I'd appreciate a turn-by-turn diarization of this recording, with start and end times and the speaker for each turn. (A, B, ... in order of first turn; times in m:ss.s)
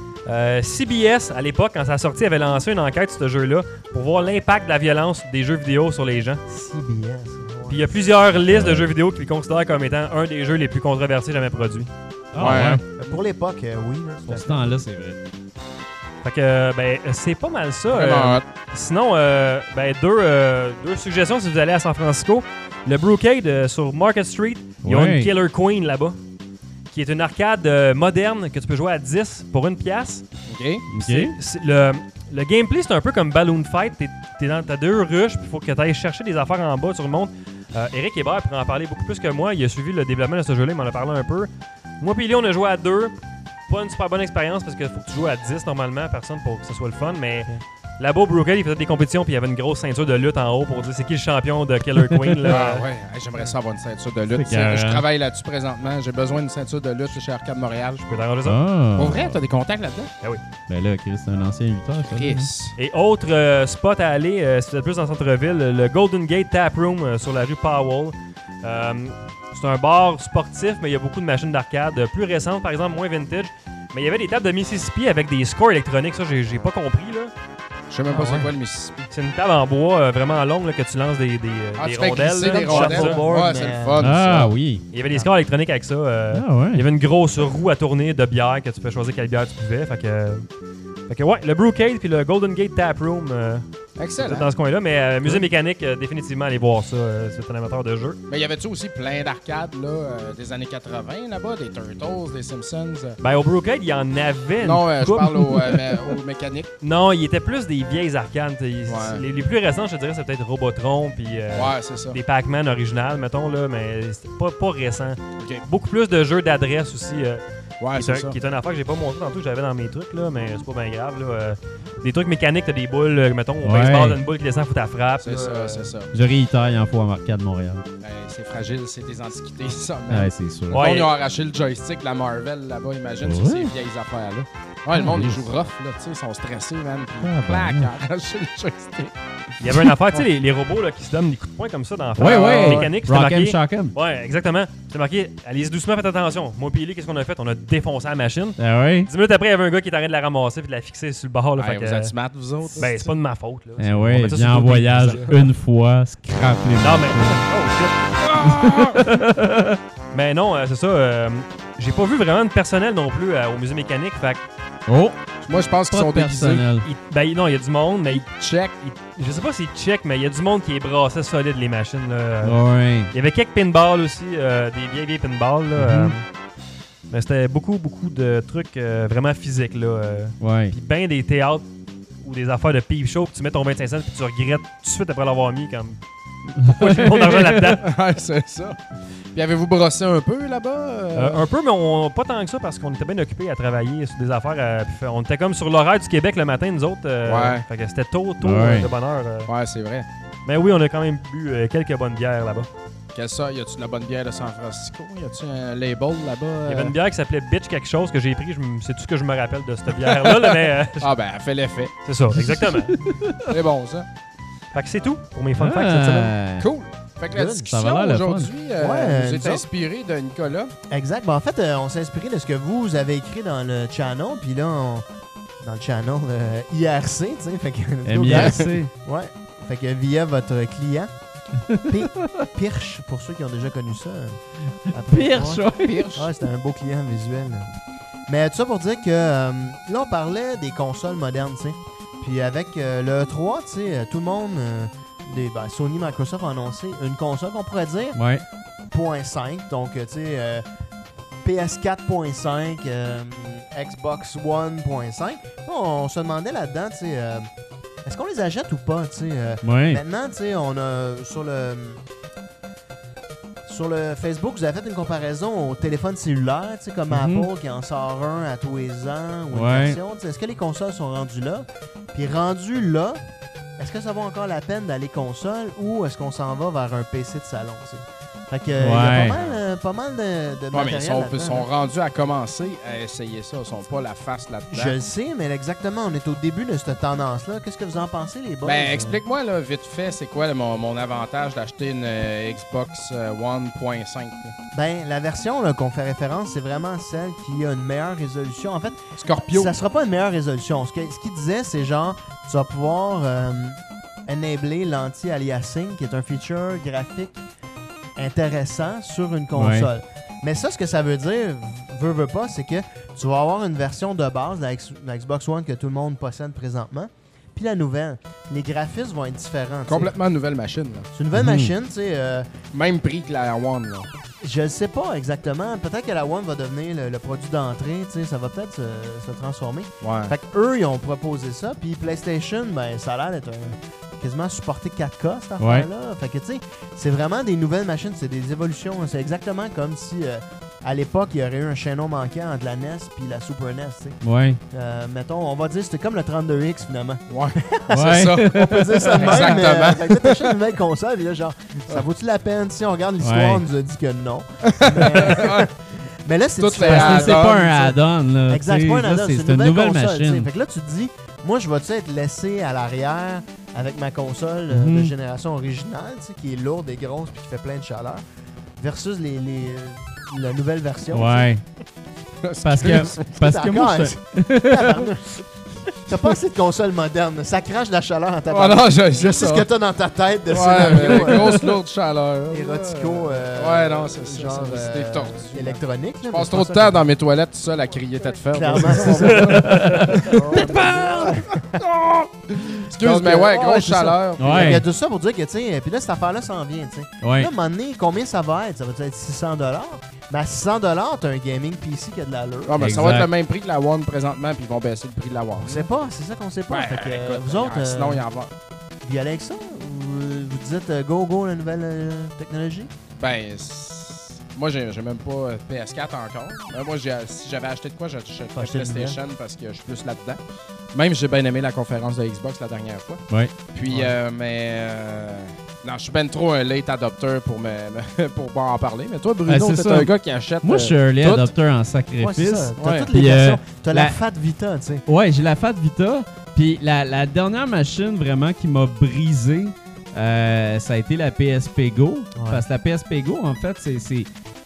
0:00.3-0:06.4 A
0:06.5-0:08.1 B
0:07.7-0:11.9 A
0:08.5-0:08.9 C
0:12.3-0:12.8 C
0:12.4-0:12.8 D
0:12.9-0:14.7 B
0:14.3-0:15.2 C
0:16.2-0:26.2 A
0:17.9-0:18.4 D
0:24.8-0:25.3 C
0:26.9-0:30.2 A
0:30.5-0:30.9 D
0:30.9-0:31.4 C
0:31.0-0:43.2 A
0:43.7-0:52.9 A
0:51.9-0:52.6 C
0:52.4-0:58.0 D
0:54.3-0:55.0 C
0:58.0-0:58.6 A
0:58.4-0:59.4 C
0:59.0-1:00.1 D
1:00.7-1:02.5 C
1:02.0-1:02.8 D
1:02.8-1:17.3 A
1:17.9-1:19.0 D
1:18.1-1:18.5 B
1:19.0-1:23.5 A
1:21.8-1:24.6 D
1:22.4-1:24.0 B
1:24.0-1:24.8 C
1:24.9-1:30.5 A
1:26.3-1:26.8 C
1:31.1-1:38.2 A
1:34.0-1:34.5 D
1:38.3-1:43.2 D
1:43.2-1:46.1 A
1:44.6-1:46.7 D
1:46.8-2:05.9 A
1:48.9-1:49.2 D
1:51.5-1:52.2 D
1:55.4-1:55.7 D
1:57.8-1:58.4 D
2:03.6-2:04.2 C
2:05.2-2:06.1 D
2:06.1-2:07.9 C
2:08.0-2:19.1 D
2:10.1-2:10.8 C
2:10.7-2:11.1 A
2:13.2-2:13.7 C
2:14.9-2:15.4 C
2:17.2-2:17.9 C
2:19.6-2:32.1 A
2:22.2-2:24.0 C
2:22.2-2:22.9 D
2:28.6-2:29.1 C
2:31.6-2:33.1 D
2:32.8-2:35.4 A
2:33.8-2:37.4 C
2:36.8-2:38.0 A
2:38.1-2:39.0 D
2:38.4-2:39.8 C
2:40.1-2:44.4 A
2:44.9-2:45.2 C
2:45.4-2:46.6 D
2:45.9-2:46.9 C
2:46.8-2:48.3 A
2:48.1-2:48.8 D
2:48.8-2:52.6 A
2:52.4-2:53.1 C
2:53.1-2:56.3 A
2:55.8-2:56.2 C
2:57.1-3:01.7 A
3:00.4-3:00.7 C
3:02.2-3:06.0 A
3:06.6-3:07.8 A
3:06.6-3:07.5 C
3:07.6-3:08.8 D
3:09.3-3:11.4 D
3:11.2-3:19.5 A
3:17.2-3:17.6 D
3:18.4-3:18.9 C
3:19.5-3:20.1 D
3:20.5-3:22.7 A
3:23.2-3:26.9 D
3:26.7-3:31.1 A
3:30.0-3:32.0 D
3:32.0-3:32.9 A
3:32.3-3:33.5 C
3:33.4-3:34.1 D
3:34.7-3:36.3 A
3:35.6-3:36.7 C
3:36.6-3:40.7 D
3:37.3-3:37.7 B
3:37.7-3:38.5 C
3:38.8-3:39.6 B
3:40.9-3:45.0 B
3:45.6-3:51.1 B
3:48.0-3:48.9 C
3:48.3-3:48.7 D
3:51.7-3:52.0 C
3:51.8-3:57.7 B
3:55.0-3:56.3 C
3:58.3-4:08.2 B
4:08.2-4:08.4 C
4:08.9-4:10.6 B
4:11.4-4:17.5 B
4:18.0-4:22.0 B
4:19.6-4:20.0 C
4:23.7-4:33.2 B
4:27.1-4:27.5 C
4:29.5-4:30.0 C
4:33.8-4:41.7 B
4:38.8-4:39.4 C
4:39.1-4:39.6 D
4:40.7-4:45.0 D
4:44.7-4:49.2 B
4:48.6-4:54.5 D
4:54.7-5:07.4 B
4:59.2-4:59.7 D
5:08.2-5:20.1 B
5:09.5-5:09.9 C
5:19.9-5:21.1 D
5:21.1-5:22.5 B
5:21.3-5:21.7 C
5:22.7-5:24.1 D
5:24.4-5:44.2 B
5:30.0-5:30.3 D
5:35.6-5:35.9 C
5:44.2-5:44.6 C
5:44.7-5:55.7 B
5:47.3-5:48.5 D
5:47.9-5:49.6 C
5:49.0-5:50.5 D
5:53.2-5:53.6 C
5:54.7-5:55.7 D
5:56.2-5:58.0 B
5:56.6-5:57.6 D
5:56.8-6:00.5 C
5:58.5-6:08.2 B
6:04.7-6:05.1 C
6:08.8-6:11.5 B
6:11.1-6:11.6 C
6:12.4-6:13.2 D
6:12.6-6:15.1 C
6:12.8-6:15.4 B
6:16.0-6:21.8 B
6:18.5-6:19.7 D
6:20.5-6:34.8 D
6:20.8-6:21.4 C
6:22.5-6:27.0 B
6:28.5-6:31.8 B
6:29.4-6:31.4 C
6:32.7-6:42.9 B
6:34.4-6:34.8 C
6:37.2-6:37.5 C
6:42.7-6:45.9 D
6:42.8-6:43.3 C
6:45.6-6:48.2 B
6:46.7-6:48.5 D
6:49.0-6:52.9 B
6:53.2-7:00.4 D
6:58.6-6:59.2 B
7:00.9-7:03.2 D
7:03.7-7:11.5 D
7:03.9-7:04.1 B
7:09.5-7:10.1 C
7:10.6-7:14.2 C
7:12.2-7:15.0 B
7:12.8-7:13.1 D
7:15.1-7:24.3 C
7:22.4-7:22.6 B